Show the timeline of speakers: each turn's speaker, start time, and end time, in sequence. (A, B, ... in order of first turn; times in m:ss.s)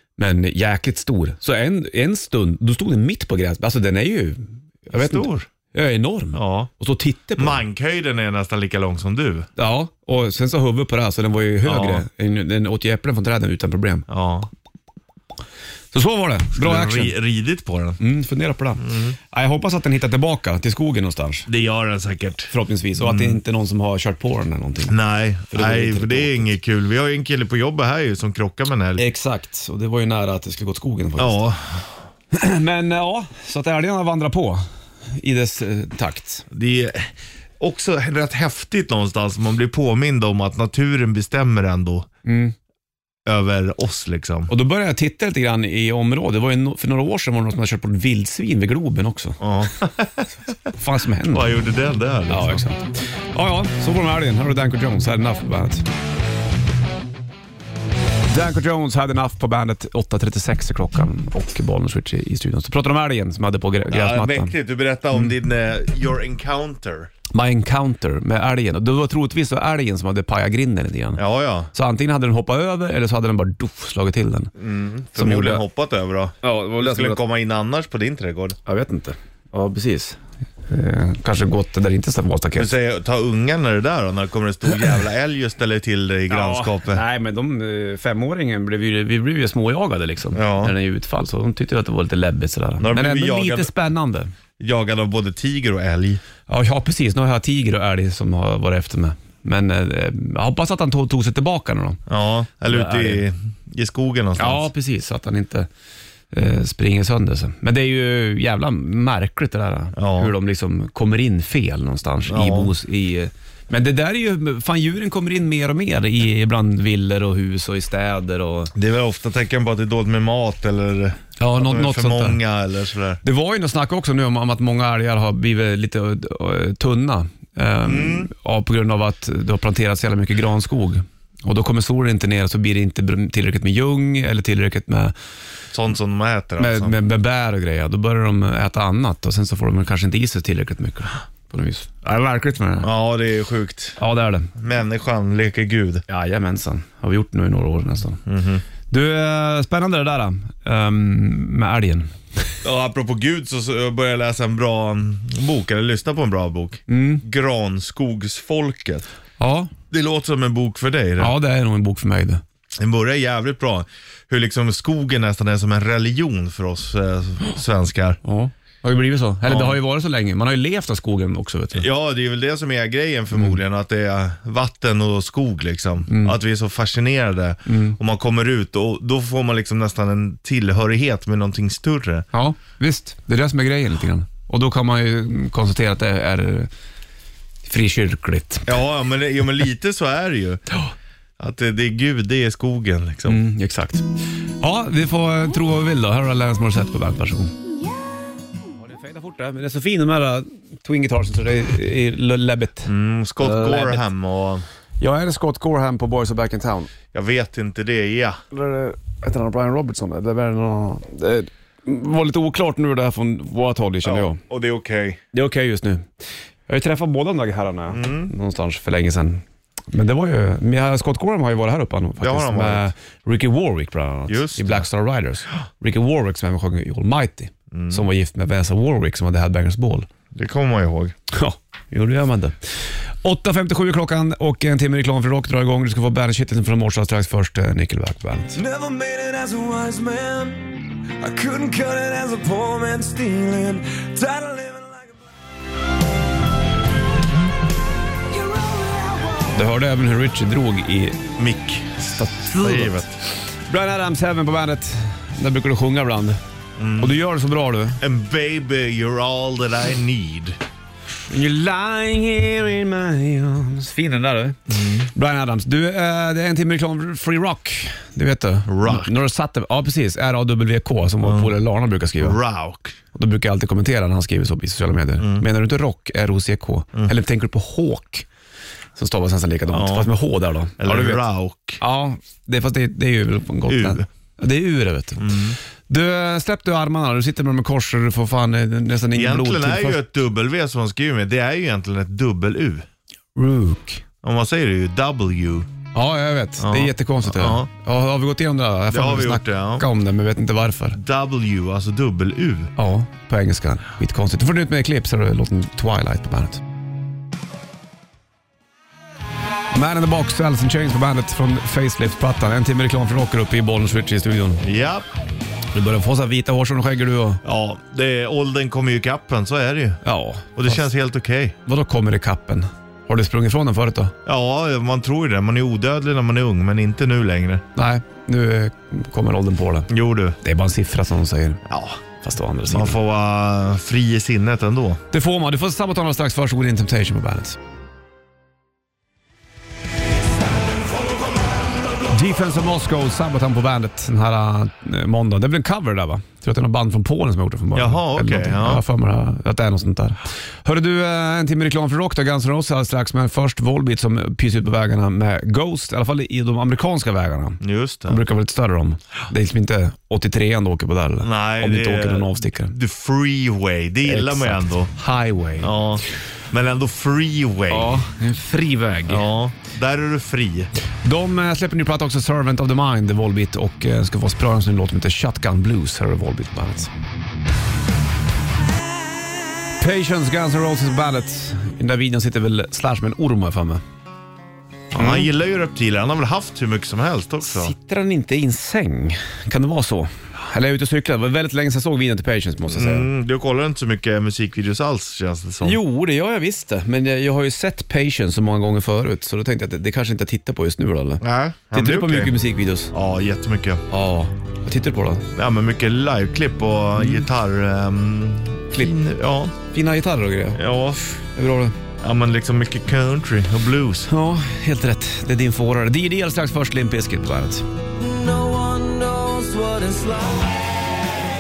0:00.2-0:07.6 A
0:04.9-0:05.5 B
0:06.3-0:06.7 B
0:07.4-0:09.5 B
0:09.6-0:14.1 A
0:11.6-0:12.0 B
0:14.1-0:14.5 B
0:15.9-0:17.2 A
0:16.5-0:18.0 B
0:18.0-0:21.5 A
0:18.8-0:19.2 B
0:21.5-0:23.4 B
0:22.5-0:25.0 A
0:24.9-0:29.0 B
0:25.5-0:26.5 A
0:29.0-0:31.4 A
0:31.2-0:31.9 B
0:32.3-0:34.6 A
0:35.2-0:36.4 A
0:36.5-0:42.1 B
0:42.2-0:42.5 A
0:43.2-0:44.5 B
0:44.5-0:49.4 A
0:49.4-0:50.3 B
0:50.7-0:51.6 A
0:51.3-0:52.6 B
0:52.3-0:55.8 A
0:58.3-1:04.5 A
1:03.9-1:07.1 B
1:07.3-1:11.2 A
1:11.2-1:11.7 B
1:11.7-1:14.5 A
1:14.6-1:18.6 B
1:15.1-1:15.6 A
1:16.4-1:17.2 A
1:18.6-1:22.7 A
1:22.6-1:27.0 B
1:26.3-1:34.3 A
1:30.3-1:30.7 B
1:32.8-1:33.7 B
1:34.6-1:36.2 B
1:36.5-1:42.0 A
1:42.1-1:44.7 B
1:42.7-1:43.2 A
1:44.4-1:45.7 A
1:46.3-1:58.7 A
1:50.0-1:50.3 B
1:52.3-1:52.7 B
1:58.7-2:03.2 B
2:01.4-2:02.4 A
2:03.2-2:15.1 A
2:07.8-2:08.3 B
2:15.7-2:16.9 B
2:16.6-2:22.9 A
2:22.8-2:24.0 B
2:24.0-2:24.5 A
2:24.6-2:26.0 B
2:26.1-2:28.2 A
2:28.2-2:28.6 B
2:28.9-2:32.6 A
2:32.6-2:39.1 B
2:36.9-2:37.2 A
2:39.4-2:39.7 A
2:39.9-2:41.3 B
2:41.2-2:42.4 A
2:42.8-2:48.2 B
2:48.2-2:51.8 A
2:49.4-2:49.8 B
2:51.8-3:02.2 B
2:56.1-2:56.4 A
2:57.7-2:58.0 A
3:02.3-3:06.7 A
3:07.6-3:08.8 A
3:08.7-3:10.6 B
3:11.4-3:13.4 B
3:13.3-3:17.5 A
3:18.8-3:24.0 A
3:22.8-3:24.6 B
3:25.0-3:26.9 A
3:27.1-3:28.4 B
3:28.5-3:34.4 A
3:34.0-3:35.2 B
3:35.3-3:36.1 A
3:36.7-3:50.1 A
3:37.9-3:38.3 B
3:42.2-3:42.9 B
3:44.3-3:44.9 B
3:47.7-3:48.0 B
3:50.3-3:51.1 B
3:51.3-3:58.6 A
3:58.5-4:05.2 C
4:08.3-4:09.5 C
4:09.5-4:11.3 A
4:11.4-4:13.1 B
4:12.2-4:13.1 A
4:13.7-4:16.4 A
4:16.8-4:17.2 B
4:17.0-4:18.0 A
4:18.0-4:20.6 B
4:21.3-4:32.4 A
4:24.7-4:25.1 B
4:28.7-4:29.1 B
4:31.2-4:31.5 B
4:32.2-4:33.0 B
4:33.1-4:38.2 A
4:35.2-4:35.4 B
4:39.0-4:41.2 A
4:39.7-4:40.1 B
4:40.8-4:41.8 B
4:41.8-4:45.3 A
4:43.7-4:44.0 B
4:45.2-4:45.6 B
4:45.9-4:50.0 A
4:49.1-4:52.9 B
4:53.4-4:54.0 A
4:54.2-4:55.7 B
4:55.9-5:01.0 A
4:56.6-4:57.7 B
4:58.9-4:59.9 B
5:00.9-5:02.7 B
5:02.8-5:06.6 A
5:09.7-5:14.6 A
5:14.6-5:15.1 B
5:15.7-5:17.4 A
5:17.4-5:20.0 B
5:20.0-5:20.8 A
5:20.6-5:21.6 B
5:21.6-5:24.1 A
5:24.2-5:27.6 B
5:27.7-5:29.9 A
5:29.9-5:30.4 B
5:30.4-5:31.6 A
5:31.7-5:32.0 B
5:32.2-5:33.0 A
5:32.7-5:35.0 B
5:35.1-5:37.6 A
5:42.1-6:02.7 A
5:47.7-5:48.8 B
5:57.6-5:58.2 B
6:01.2-6:04.9 B
6:04.0-6:05.7 A
6:05.6-6:08.0 B
6:07.7-6:09.2 A
6:09.1-6:10.7 B
6:11.0-6:16.9 A
6:19.8-6:23.8 A
6:24.9-6:27.7 B
6:24.9-6:25.3 A
6:27.4-6:33.1 A
6:32.7-6:35.8 B
6:35.6-6:42.9 A
6:41.2-6:42.4 B
6:42.9-6:43.8 B
6:43.9-6:45.3 A
6:45.4-6:49.5 B
6:47.0-6:47.2 A
6:49.6-6:50.7 A
6:50.5-6:51.2 B
6:51.2-6:51.8 A
6:52.0-6:54.1 B
6:54.1-6:57.7 A
6:57.9-7:00.7 C